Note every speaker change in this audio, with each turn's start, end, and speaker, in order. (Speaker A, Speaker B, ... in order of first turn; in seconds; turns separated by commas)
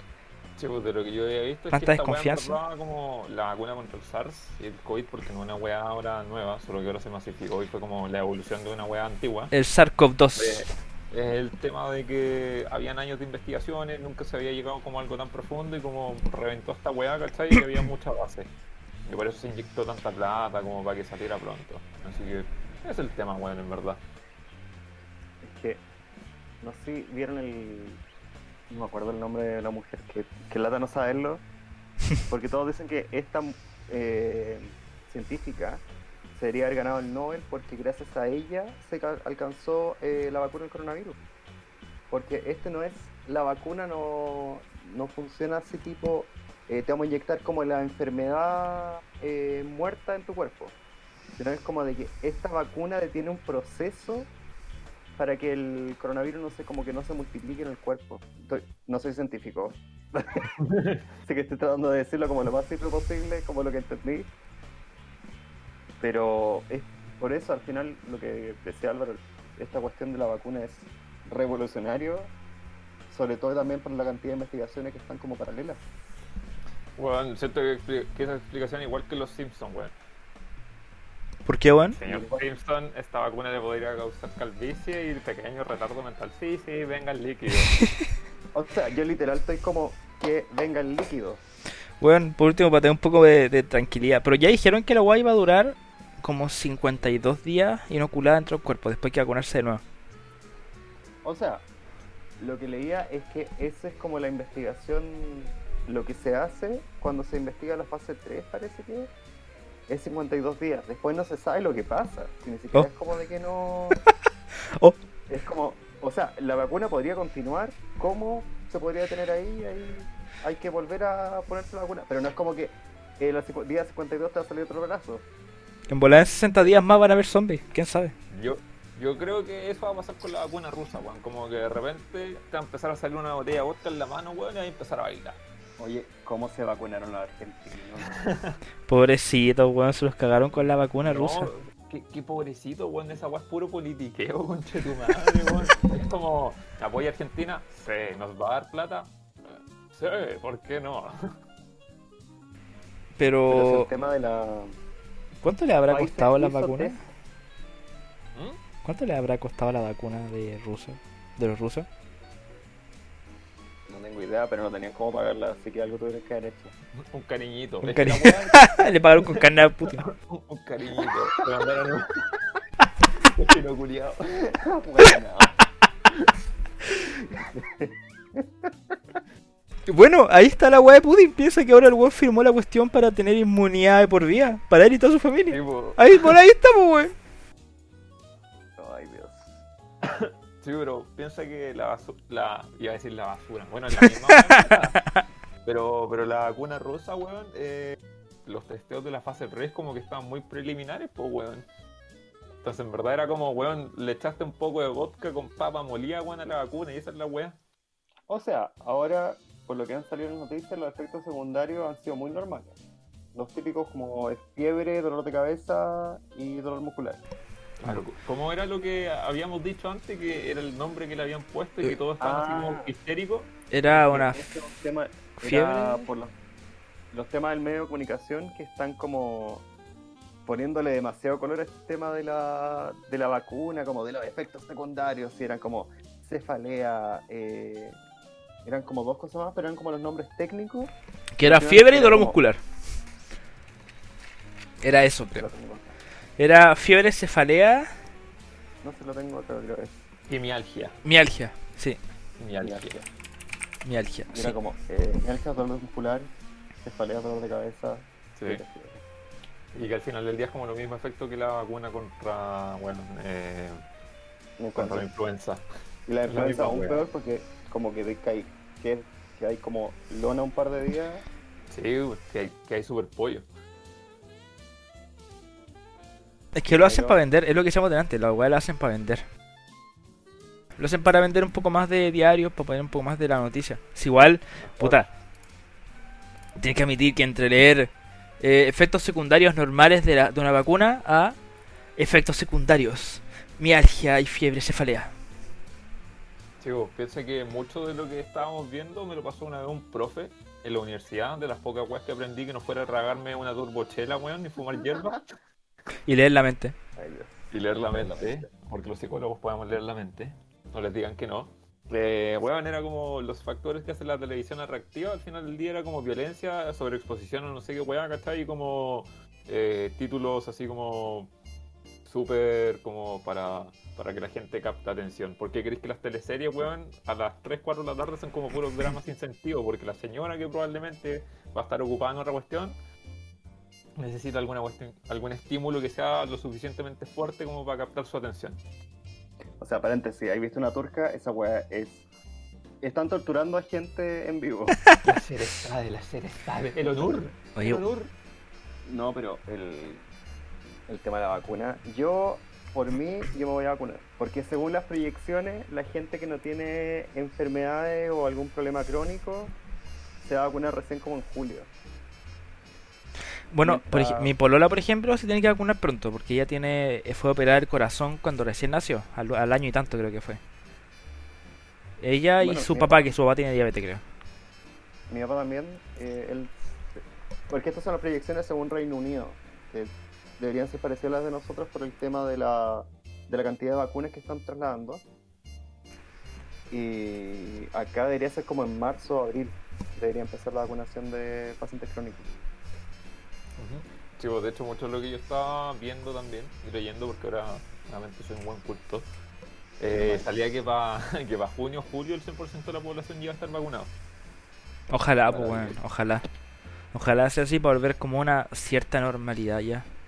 Speaker A: 0.6-9.5, Speaker B: 1.7-2.6, Speaker B: 9.5-10.7, Speaker A: 10.4-18.5, Speaker A: 19.1-24.0, Speaker C: 25.4-25.8, Speaker C: 26.6-28.0, Speaker C: 28.7-31.4, Speaker C: 32.3-35.8, Speaker C: 36.3-41.2, Speaker C: 42.1-50.8, Speaker C: 51.4-54.3, Speaker C: 55.2-60.5, Speaker A: 60.6-61.0, Speaker C: 61.2-64.3, Speaker C: 66.0-72.3, Speaker C: 73.1-75.8, Speaker A: 77.0-79.9, Speaker B: 81.5-82.0, Speaker A: 82.0-87.8, Speaker C: 82.0-82.4, Speaker C: 88.5-91.4, Speaker B: 92.0-99.8, Speaker C: 101.2-101.7, Speaker C: 102.4-109.1, Speaker C: 109.9-114.0, Speaker C: 115.3-125.3, Speaker B: 125.9-128.1, Speaker A: 128.3-135.4, Speaker C: 135.8-138.2, Speaker A: 138.1-138.6, Speaker B: 138.9-141.5, Speaker A: 141.1-151.1, Speaker B: 153.2-153.9, Speaker C: 153.5-154.8, Speaker B: 155.4-157.0, Speaker C: 155.9-157.0, Speaker B: 158.8-161.9, Speaker C: 163.9-166.7, Speaker A: 167.0-172.2, Speaker B: 167.8-170.0, Speaker A: 173.2-174.4, Speaker C: 174.4-175.6, Speaker C: 177.6-178.7, Speaker B: 179.9-187.1, Speaker A: 185.5-186.3, Speaker C: 188.8-189.6, Speaker A: 190.0-195.0, Speaker B: 194.3-194.8, Speaker A: 195.6-201.7, Speaker A: 202.6-207.6, Speaker C: 208.3-212.8, Speaker C: 213.3-217.2, Speaker A: 217.8-223.5, Speaker C: 222.2-222.9, Speaker B: 223.7-224.4, Speaker C: 223.9-226.3, Speaker B: 225.4-226.1, Speaker C: 227.1-229.7, Speaker C: 230.5-238.0, Speaker C: 238.7-242.4, Speaker B: 241.3-242.6, Speaker B: 244.8-245.5, Speaker C: 245.3-245.9, Speaker B: 246.4-247.9, Speaker C: 248.8-250.1, Speaker A: 250.3-251.0, Speaker B: 251.0-252.0, Speaker A: 252.4-253.0, Speaker C: 252.6-253.0, Speaker B: 253.8-254.6, Speaker C: 254.3-256.3, Speaker C: 256.8-259.0, Speaker A: 258.4-258.6, Speaker A: 259.7-263.8, Speaker C: 264.6-265.1, Speaker A: 264.8-265.6, Speaker C: 266.1-271.2, Speaker A: 266.3-267.0, Speaker A: 271.7-273.5, Speaker B: 276.5-279.2, Speaker C: 276.7-277.2, Speaker B: 280.8-285.1, Speaker B: 286.6-291.4, Speaker B: 292.0-295.1, Speaker A: 296.6-305.3, Speaker B: 306.1-306.8, Speaker C: 307.0-308.5, Speaker A: 307.5-321.3, Speaker A: 322.1-332.8, Speaker A: 334.0-338.6, Speaker C: 339.6-342.1, Speaker C: 342.8-344.8, Speaker A: 345.0-348.1, Speaker B: 347.6-347.8, Speaker C: 348.9-350.0, Speaker C: 350.9-359.5, Speaker C: 360.2-361.7, Speaker B: 363.5-370.4, Speaker C: 363.6-364.3, Speaker B: 372.0-374.0, Speaker C: 372.4-373.0, Speaker C: 375.1-385.0, Speaker C: 386.7-392.3, Speaker A: 393.6-399.1, Speaker A: 399.8-403.9, Speaker C: 399.9-400.3, Speaker B: 404.9-406.2, Speaker B: 406.9-409.9